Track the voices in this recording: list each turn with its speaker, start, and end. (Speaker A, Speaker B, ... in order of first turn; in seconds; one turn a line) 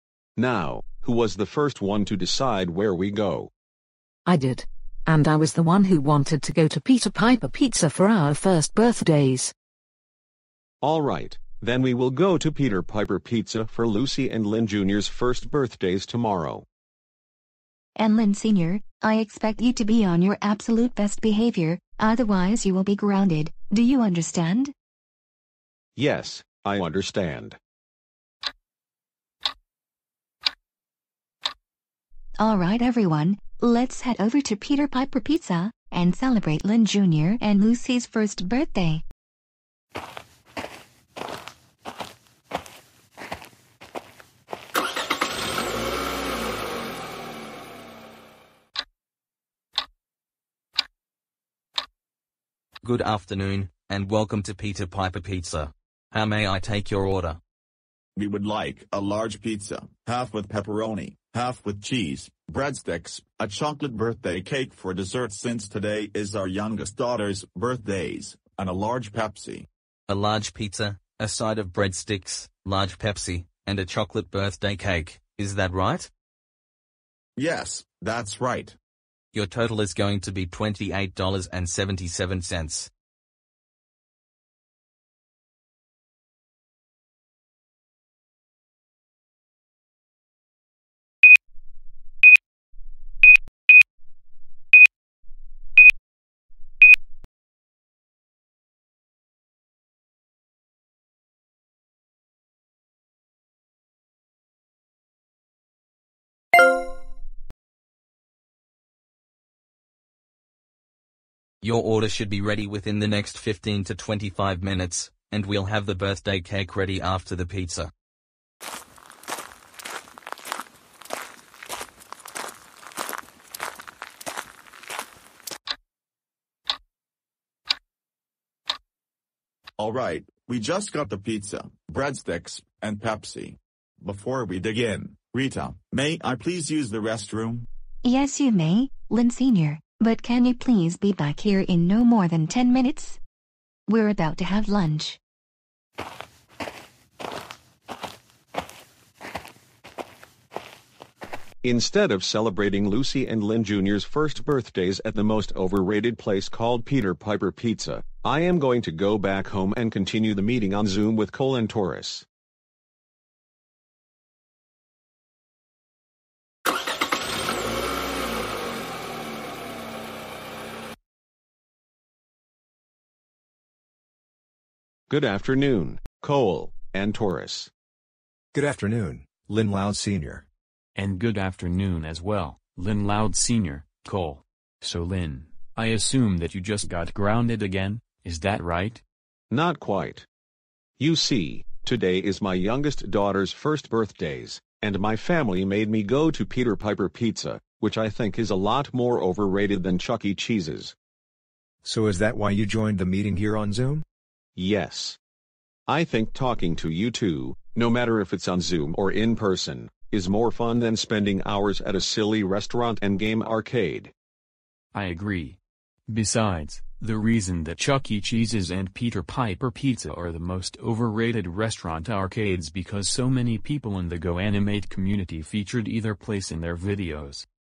Speaker A: 0.4-3.5
Speaker B: 4.3-9.5
Speaker A: 10.8-16.6
Speaker C: 18.0-24.7
Speaker A: 26.0-27.6
Speaker C: 32.4-39.0
Speaker D: 52.8-57.4
Speaker E: 58.2-69.7
Speaker D: 70.1-76.1
Speaker E: 77.4-78.8
Speaker D: 79.3-82.9
Speaker D: 111.6-117.9
Speaker E: 129.8-137.7
Speaker C: 138.0-143.2
Speaker C: 143.9-145.2
Speaker A: 151.6-162.2
Speaker A: 175.1-177.7
Speaker F: 178.5-180.4
Speaker G: 180.9-189.0
Speaker A: 189.5-190.3
Speaker A: 191.0-200.9
Speaker F: 201.8-204.1
Speaker A: 204.6-205.2
Speaker A: 205.9-214.1
Speaker G: 214.9-227.5